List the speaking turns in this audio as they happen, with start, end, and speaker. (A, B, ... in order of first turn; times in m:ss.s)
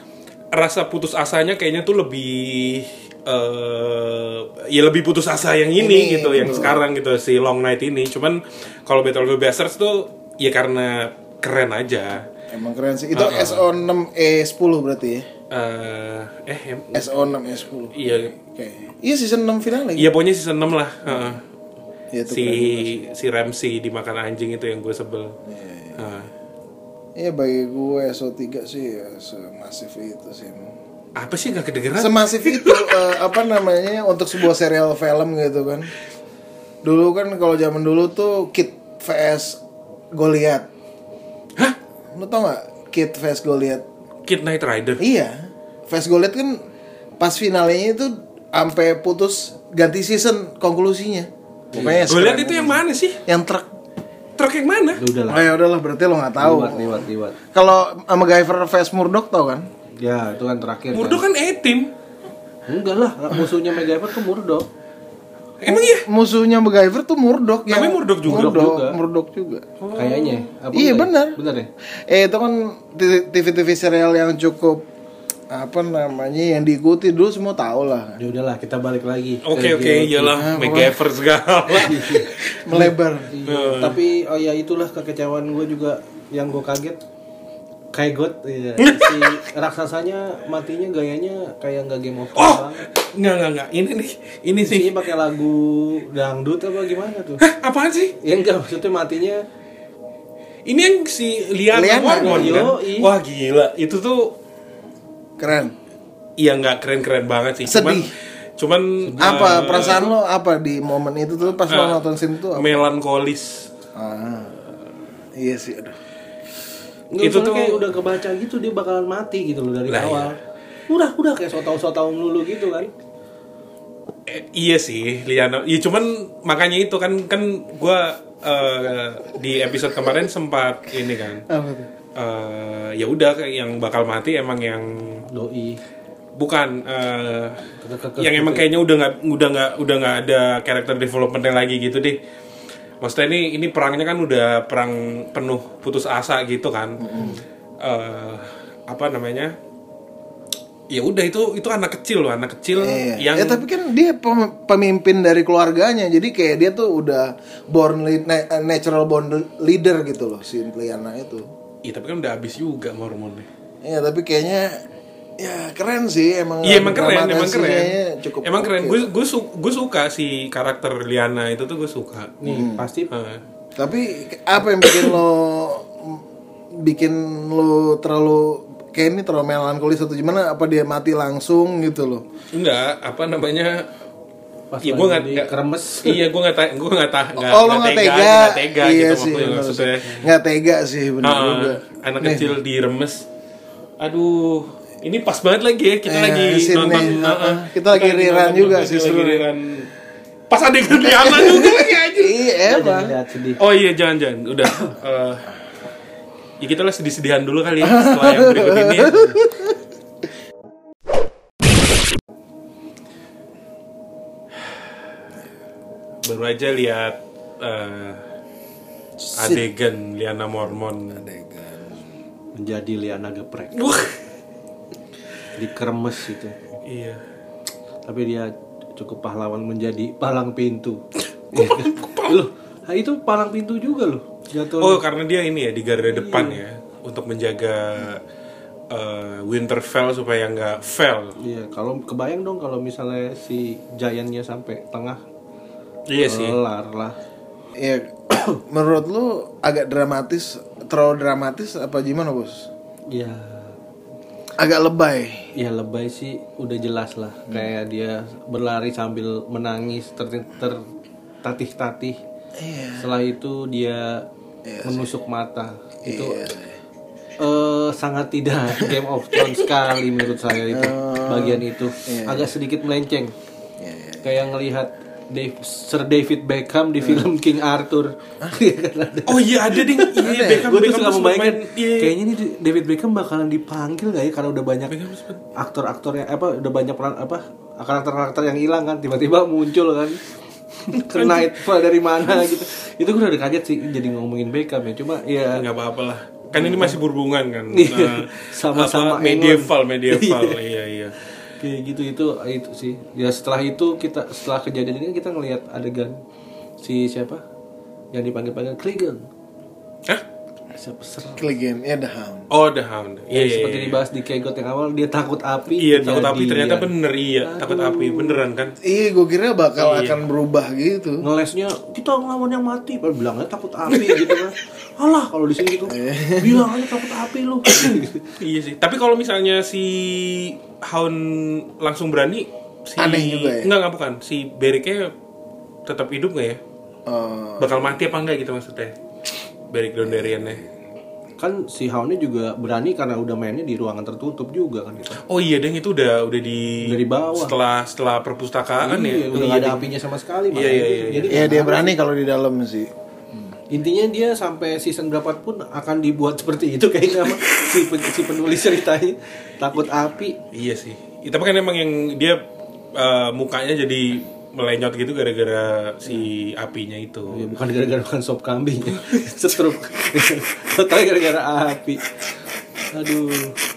0:00.5-0:12.2 A
0:05.8-0:06.8 B
0:12.5-0:15.3 B
0:13.1-0:13.6 A
0:15.5-0:17.1 A
0:16.9-0:20.1 B
0:17.9-0:18.3 A
0:20.0-0:21.4 A
0:21.0-0:21.4 B
0:22.1-0:23.0 B
0:22.3-0:25.4 A
0:25.5-0:26.0 B
0:26.0-0:26.3 A
0:27.2-0:30.7 B
0:31.1-0:33.0 A
0:32.0-0:35.9 B
0:36.8-0:39.6 B
0:40.1-0:40.7 B
0:42.1-0:43.8 B
0:44.2-0:45.0 A
0:45.0-0:46.6 B
0:47.2-0:53.7 B
0:51.7-0:52.1 C
0:52.1-0:53.2 A
0:54.4-0:55.0 A
0:55.0-0:55.5 C
0:55.3-0:59.7 B
0:56.4-0:57.4 C
1:00.0-1:01.2 C
1:00.9-1:01.9 A
1:02.7-1:04.7 C
1:05.6-1:06.0 A
1:05.6-1:09.6 B
1:07.7-1:08.6 A
1:08.2-1:09.0 C
1:09.8-1:10.5 A
1:09.9-1:11.7 C
1:10.7-1:11.4 B
1:12.1-1:14.8 B
1:15.5-1:18.2 B
1:18.2-1:20.5 C
1:19.4-1:22.6 A
1:20.3-1:21.0 B
1:21.7-1:27.0 C
1:22.6-1:23.3 B
1:23.4-1:24.0 A
1:27.9-1:32.9 C
1:28.8-1:29.4 A
1:32.3-1:35.0 A
1:34.6-1:37.4 C
1:37.4-1:38.2 A
1:38.2-1:39.4 C
1:40.6-1:44.4 A
1:41.7-1:42.7 B
1:42.2-1:43.1 C
1:45.4-1:45.7 B
1:46.4-1:50.1 A
1:47.6-1:48.1 B
1:49.0-1:50.0 C
1:49.2-1:52.8 B
1:51.7-1:53.7 A
1:53.9-1:54.6 B
1:55.4-1:56.0 B
1:57.1-2:00.4 C
1:57.2-1:57.9 A
1:59.9-2:00.3 A
2:00.9-2:02.9 C
2:04.3-2:11.4 A
2:11.5-2:11.9 B
2:12.2-2:15.2 A
2:15.3-2:15.8 C
2:16.4-2:17.7 A
2:17.8-2:18.6 C
2:18.2-2:22.2 A
2:23.0-2:27.2 A
2:27.0-2:27.4 B
2:27.8-2:29.5 A
2:30.9-2:33.6 A
2:32.8-2:41.5 B
2:41.8-2:43.5 A
2:43.8-2:44.8 B
2:45.4-2:49.1 B
2:46.6-2:52.4 A
2:52.4-2:53.1 C
2:52.4-2:52.9 B
2:53.1-2:53.4 A
2:53.8-2:56.2 B
2:56.7-3:02.2 B
3:02.5-3:03.9 A
3:04.7-3:06.2 C
3:04.8-3:10.2 A
3:07.4-3:12.5 B
3:11.2-3:13.2 A
3:14.0-3:19.9 A
3:16.0-3:19.5 B
3:20.5-3:22.4 A
3:20.9-3:23.1 B
3:22.6-3:23.6 C
3:23.6-3:25.5 A
3:26.6-3:29.3 A
3:27.8-3:29.7 B
3:36.2-3:38.2 A
3:39.2-3:39.6 B
3:39.3-3:41.2 A
3:41.1-3:42.0 B
3:42.5-3:44.0 C
3:43.8-3:44.1 A
3:45.6-3:46.6 C
3:46.8-3:47.2 A
3:48.0-3:51.0 C
3:51.5-3:52.4 A
3:51.5-3:55.0 C
3:54.8-3:58.2 A
3:56.1-3:56.6 C
3:58.9-4:01.3 A
4:01.4-4:05.2 C
4:06.1-4:06.6 A
4:06.2-4:07.2 C
4:07.8-4:12.7 B
4:13.1-4:13.7 C
4:14.6-4:15.5 B
4:15.5-4:20.8 C
4:21.4-4:22.2 C
4:22.6-4:23.1 B
4:23.0-4:24.3 C
4:24.6-4:25.1 B
4:24.8-4:26.5 C
4:26.0-4:26.8 B
4:27.4-4:33.3 C
4:30.7-4:32.5 B
4:33.8-4:34.2 B
4:34.2-4:45.0 C
4:39.3-4:42.1 A
4:40.2-4:40.7 B
4:44.9-4:45.4 A
4:45.5-4:50.2 C
4:50.8-4:55.6 C
4:50.9-4:51.6 A
4:55.5-5:01.2 A
4:56.5-4:57.0 C
4:57.7-5:00.6 C
5:01.6-5:06.2 C
5:06.8-5:07.4 C
5:08.1-5:09.2 C
5:10.7-5:11.5 C
5:11.4-5:12.5 B
5:12.5-5:14.0 A
5:13.3-5:16.9 C
5:15.8-5:18.7 A
5:17.4-5:18.4 C
5:18.8-5:21.2 B
5:19.8-5:20.2 A
5:21.2-5:28.3 C
5:23.9-5:24.4 A
5:25.9-5:26.7 B
5:27.7-5:35.1 A
5:33.0-5:33.7 B
5:35.8-5:36.6 A
5:37.0-5:38.0 B
5:37.6-5:38.9 A
5:39.7-5:40.6 A
5:40.1-5:40.7 B
5:41.4-5:45.2 C
5:45.2-5:49.9 A
5:46.8-5:47.5 C
5:48.8-5:52.0 C
5:50.5-5:51.5 A
5:51.3-5:53.5 B
5:53.7-6:00.4 C
6:00.5-6:02.4 A
6:02.9-6:07.5 A
6:07.3-6:12.0 C
6:12.9-6:13.6 C